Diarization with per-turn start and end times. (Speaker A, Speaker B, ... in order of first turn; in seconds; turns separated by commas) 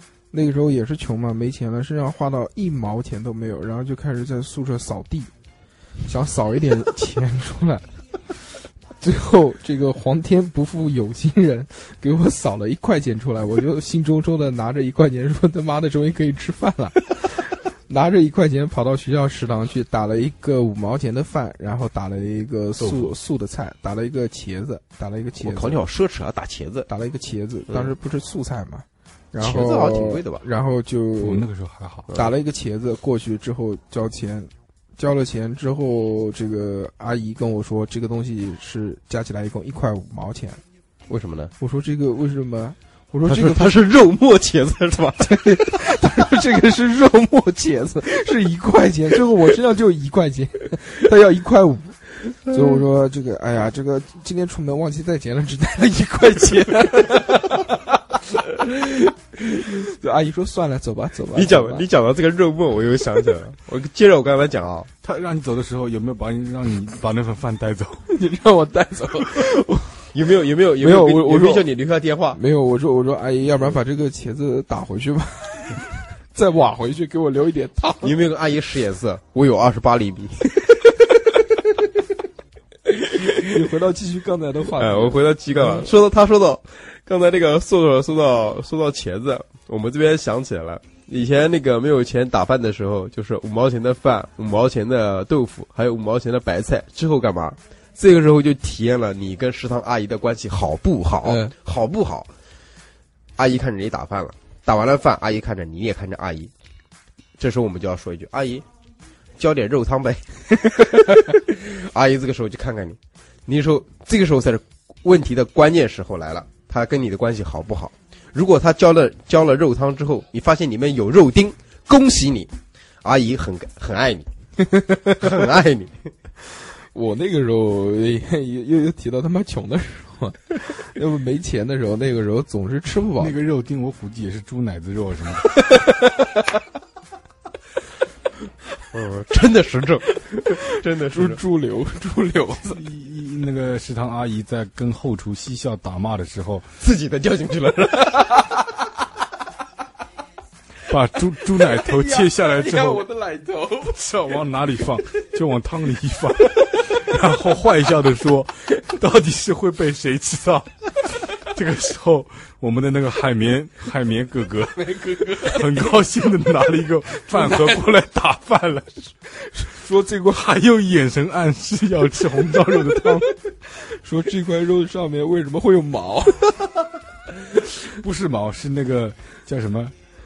Speaker A: 0.3-5.3, Speaker A: 6.1-7.9, Speaker A: 9.0-25.8, Speaker B: 22.8-23.1, Speaker C: 25.4-26.9, Speaker A: 26.9-31.4, Speaker C: 29.4-30.4, Speaker B: 31.2-32.1, Speaker A: 32.1-40.6, Speaker C: 41.1-41.5, Speaker A: 41.6-43.9, Speaker C: 43.3-45.8, Speaker A: 45.2-61.9, Speaker C: 61.3-64.9, Speaker B: 65.0-68.1, Speaker A: 68.1-70.1, Speaker C: 70.1-72.4, Speaker A: 70.8-71.7, Speaker A: 72.3-78.1, Speaker C: 78.0-81.4, Speaker C: 82.9-83.5, Speaker A: 83.4-85.9, Speaker C: 84.8-102.3, Speaker A: 101.2-101.5, Speaker C: 103.4-106.5, Speaker C: 107.4-108.7, Speaker C: 109.4-122.5, Speaker C: 123.0-124.3, Speaker A: 124.6-125.3, Speaker C: 125.2-126.1, Speaker A: 126.9-133.4, Speaker B: 133.2-135.6, Speaker C: 138.9-141.4, Speaker A: 141.1-142.8, Speaker B: 142.7-146.7, Speaker C: 146.8-148.7, Speaker B: 150.9-153.1, Speaker A: 151.7-153.9, Speaker B: 153.7-169.0, Speaker A: 164.8-165.8, Speaker A: 167.3-167.8, Speaker A: 169.4-170.4, Speaker B: 170.1-173.4, Speaker A: 172.7-176.7, Speaker B: 177.9-180.0